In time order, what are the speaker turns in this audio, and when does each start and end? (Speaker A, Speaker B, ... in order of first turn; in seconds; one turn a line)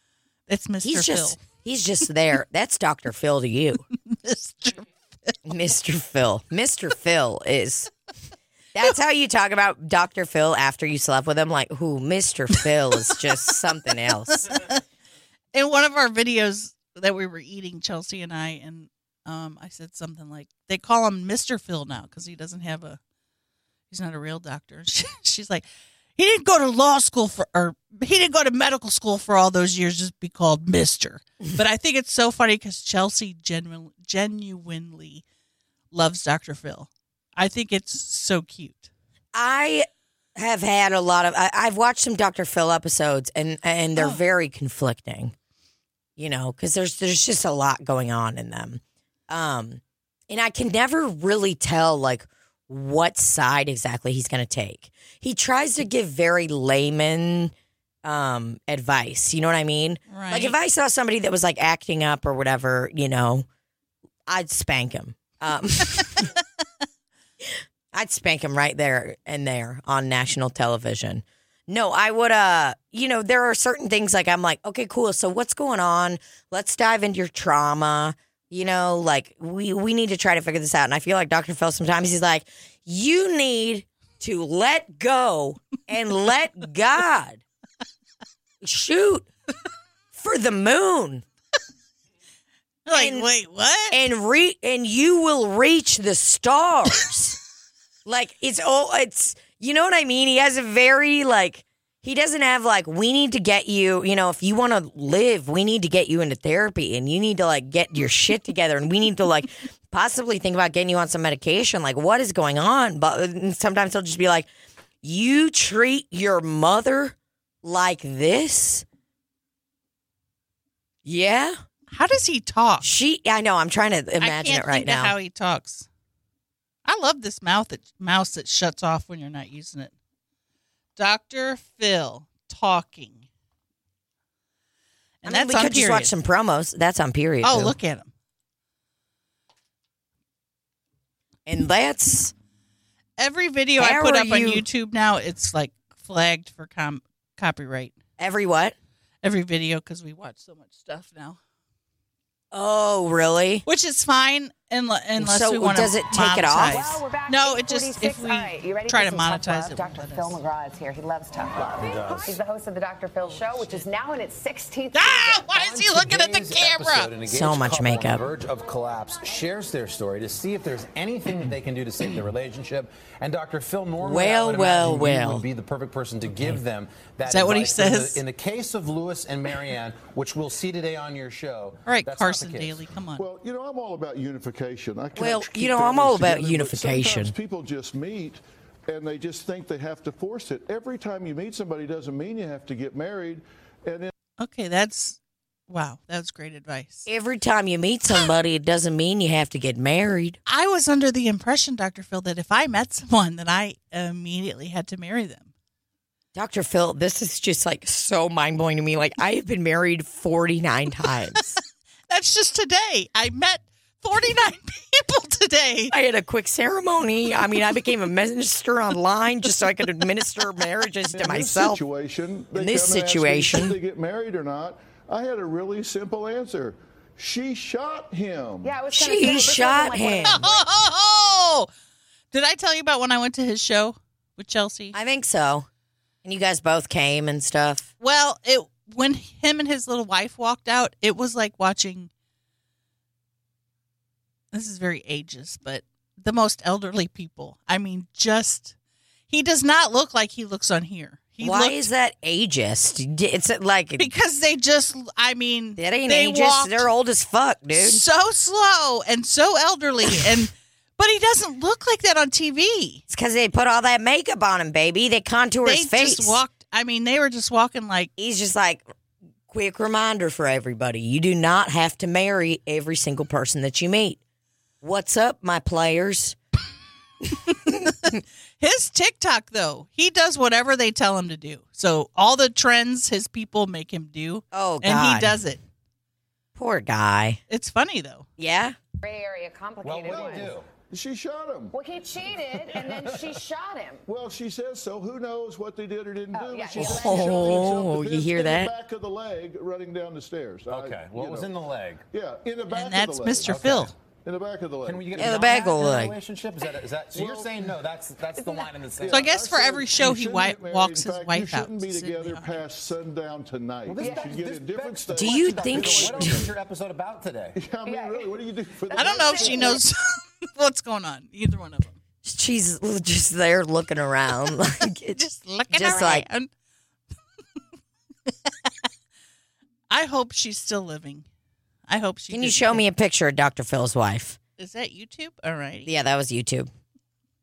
Speaker A: 0.5-1.4
Speaker B: 0.8-3.9
Speaker A: 4.1-5.3
Speaker B: 5.5-7.9
Speaker B: 8.7-14.5
Speaker A: 14.4-14.8
Speaker A: 15.5-23.0
Speaker A: 23.9-25.6
Speaker A: 26.2-35.2
Speaker A: 35.9-38.9
Speaker B: 39.3-45.3
Speaker A: 44.0-44.2
Speaker B: 46.2-63.5
Speaker A: 60.1-60.5
Speaker B: 64.3-66.3
Speaker B: 67.4-87.4
Speaker B: 88.6-89.3
Speaker B: 90.1-91.2
Speaker A: 92.9-94.0
Speaker B: 92.9-93.3
Speaker B: 93.9-97.4
Speaker B: 98.0-114.5
Speaker B: 115.0-118.8
Speaker B: 121.0-121.6
Speaker A: 121.9-122.9
Speaker B: 122.8-125.2
Speaker A: 124.2-125.9
Speaker A: 126.8-129.9
Speaker A: 131.0-133.3
Speaker A: 135.2-136.1
Speaker B: 135.2-137.8
Speaker A: 137.4-138.1
Speaker B: 141.5-142.3
Speaker A: 143.2-148.0
Speaker B: 143.8-144.7
Speaker B: 148.2-148.8
Speaker A: 149.2-151.4
Speaker B: 152.5-153.6
Speaker A: 153.7-160.4
Speaker B: 155.2-157.0
Speaker C: 156.7-165.5
Speaker D: 161.8-162.4
Speaker D: 163.4-163.8
Speaker A: 164.9-167.1
Speaker D: 165.6-182.9
Speaker B: 167.3-168.2
Speaker B: 174.0-175.4
Speaker B: 176.3-176.6
Speaker A: 177.3-178.2
Speaker A: 181.9-183.2
Speaker E: 183.2-194.1
Speaker B: 185.2-187.3
Speaker A: 194.4-197.1
Speaker B: 197.1-200.4
Speaker A: 200.5-205.5
Speaker B: 206.3-211.6
Speaker A: 212.1-215.9
Speaker B: 215.9-221.8
Speaker E: 221.1-228.8
Speaker B: 222.6-223.8
Speaker C: 228.6-230.6
Speaker B: 228.9-230.5
Speaker A: 230.2-231.7
Speaker A: 232.3-235.0
Speaker B: 234.9-235.7
Speaker B: 236.2-237.9
Speaker A: 238.0-242.1
Speaker A: 244.5-248.7
Speaker A: 249.3-251.9
Speaker B: 251.4-254.1
Speaker A: 254.0-256.9
Speaker B: 255.8-258.0
Speaker A: 257.7-263.0
Speaker B: 263.1-266.4
Speaker A: 265.6-268.1
Speaker B: 268.2-268.9
Speaker B: 269.5-274.2
Speaker B: 274.8-276.4
Speaker B: 277.5-278.2
Speaker A: 278.6-285.6
Speaker B: 284.5-285.4
Speaker B: 286.6-287.4
Speaker A: 287.5-288.3
Speaker B: 288.4-288.8
Speaker C: 289.0-290.5
Speaker D: 289.8-290.7
Speaker E: 290.0-291.7
Speaker C: 291.7-294.0
Speaker E: 292.7-293.1
Speaker E: 294.1-301.5
Speaker C: 296.3-297.7
Speaker B: 296.8-298.7
Speaker D: 296.8-297.1
Speaker D: 300.7-302.1
Speaker E: 302.1-303.6
Speaker A: 302.7-303.9
Speaker D: 303.4-303.9
Speaker E: 304.2-305.2
Speaker D: 304.8-309.4
Speaker B: 305.1-306.2
Speaker E: 307.1-307.7
Speaker C: 308.4-308.7
Speaker E: 309.0-316.5
Speaker A: 309.1-312.8
Speaker D: 313.8-317.6
Speaker C: 314.0-314.4
Speaker B: 315.1-316.5
Speaker E: 317.6-319.8
Speaker C: 317.9-318.3
Speaker C: 318.8-319.8
Speaker A: 318.9-322.0
Speaker B: 322.2-326.3
Speaker A: 325.1-326.5
Speaker A: 329.9-331.3
Speaker A: 331.9-332.8
Speaker B: 332.3-334.4
Speaker A: 334.6-335.9
Speaker B: 335.9-336.7